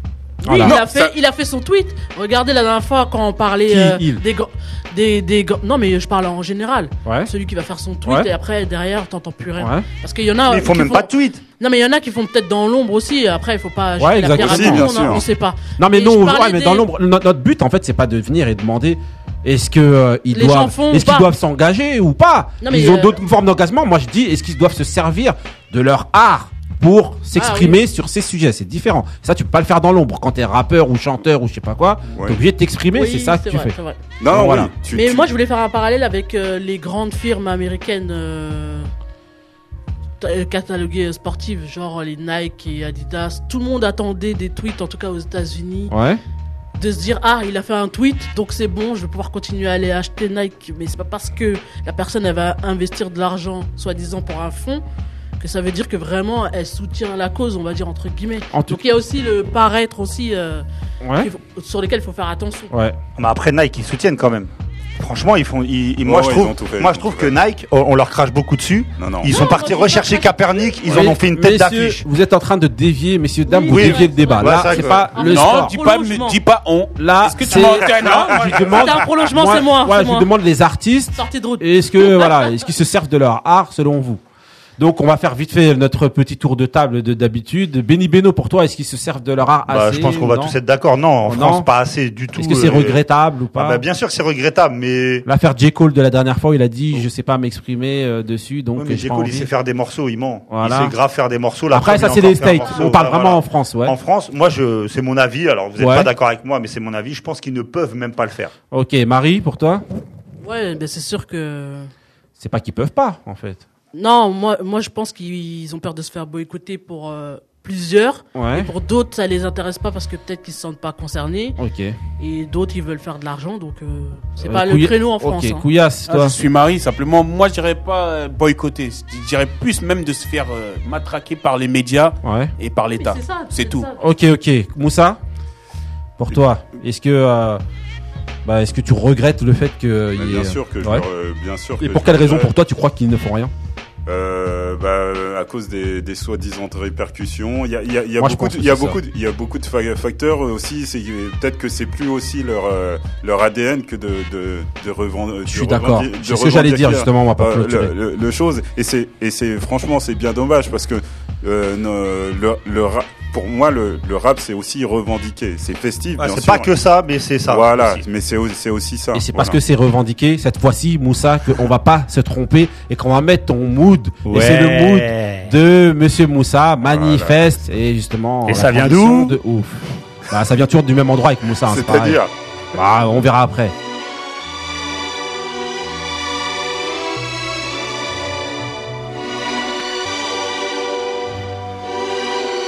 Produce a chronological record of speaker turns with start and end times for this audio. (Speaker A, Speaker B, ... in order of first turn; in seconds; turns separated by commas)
Speaker A: 0.4-0.8, Speaker B: 0.4-16.9, Speaker C: 0.6-1.1, Speaker A: 3.7-4.2, Speaker A: 9.6-9.8, Speaker D: 10.5-11.4, Speaker A: 14.0-15.2, Speaker C: 14.3-15.2, Speaker A: 15.8-34.7, Speaker B: 20.3-21.3, Speaker B: 22.6-23.2, Speaker B: 27.3-27.8, Speaker C: 32.1-32.4, Speaker B: 32.9-34.1, Speaker C: 34.2-35.3, Speaker B: 34.9-38.9, Speaker B: 40.2-45.9, Speaker A: 45.9-46.2, Speaker B: 46.8-54.8, Speaker B: 55.4-60.6, Speaker A: 58.5-58.8, Speaker A: 61.0-61.3, Speaker B: 61.2-62.7, Speaker D: 63.2-72.0, Speaker C: 66.0-67.3, Speaker C: 69.0-69.3, Speaker B: 69.3-70.4, Speaker A: 70.9-75.8, Speaker B: 73.5-76.4, Speaker D: 73.7-75.1, Speaker E: 75.2-78.6, Speaker A: 77.0-84.2, Speaker B: 78.7-80.3, Speaker B: 81.1-82.5, Speaker A: 84.8-90.5, Speaker D: 89.7-93.0, Speaker A: 91.3-91.7, Speaker A: 92.3-93.8, Speaker D: 93.5-95.2, Speaker A: 95.2-99.5, Speaker D: 98.8-108.5, Speaker A: 100.5-100.9, Speaker A: 101.7-104.0, Speaker A: 105.8-106.1, Speaker A: 108.7-109.8, Speaker B: 110.4-111.9, Speaker A: 112.4-113.6, Speaker B: 113.9-121.6, Speaker A: 118.3-118.7, Speaker A: 121.6-122.0, Speaker B: 122.2-125.6, Speaker A: 124.4-126.3, Speaker E: 126.1-133.9, Speaker A: 132.2-132.5, Speaker B: 133.0-134.0, Speaker A: 134.0-135.2, Speaker A: 136.2-137.6, Speaker A: 138.4-141.0, Speaker C: 140.2-142.5, Speaker A: 141.8-143.5, Speaker C: 144.1-166.7, Speaker A: 148.2-149.0, Speaker A: 155.5-157.9, Speaker D: 166.2-168.0, Speaker C: 167.5-169.6, Speaker A: 169.1-182.2, Speaker D: 174.2-175.5, Speaker C: 176.8-177.6, Speaker D: 178.5-179.4, Speaker C: 181.7-182.3, Speaker A: 182.7-183.7